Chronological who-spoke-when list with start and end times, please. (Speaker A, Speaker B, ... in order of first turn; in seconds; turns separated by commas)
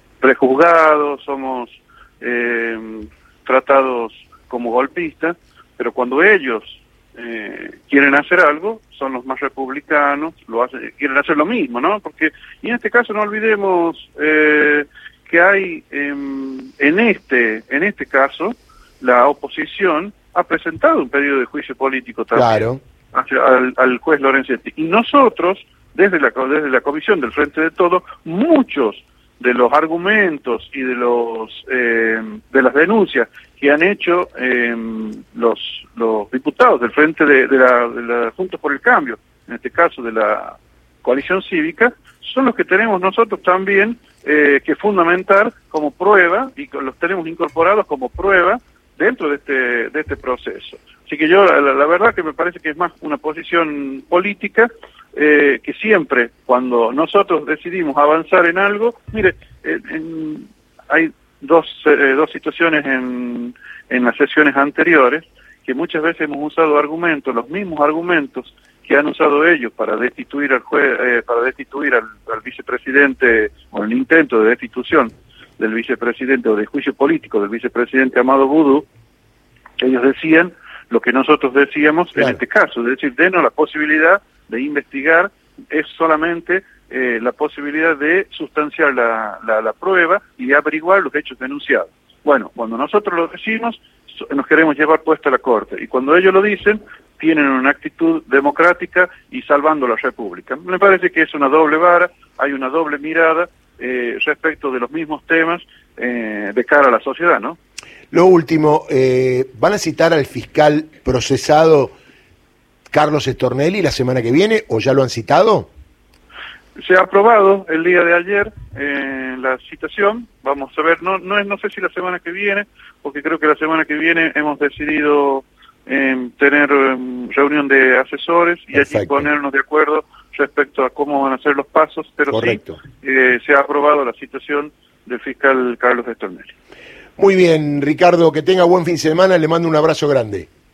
Speaker A: 0.2-78.9, Speaker B: 22.4-22.8, Speaker A: 79.8-107.6, Speaker B: 108.1-111.9, Speaker B: 112.9-115.7, Speaker A: 116.8-136.5, Speaker B: 128.7-129.3, Speaker B: 132.3-132.8, Speaker B: 137.2-140.5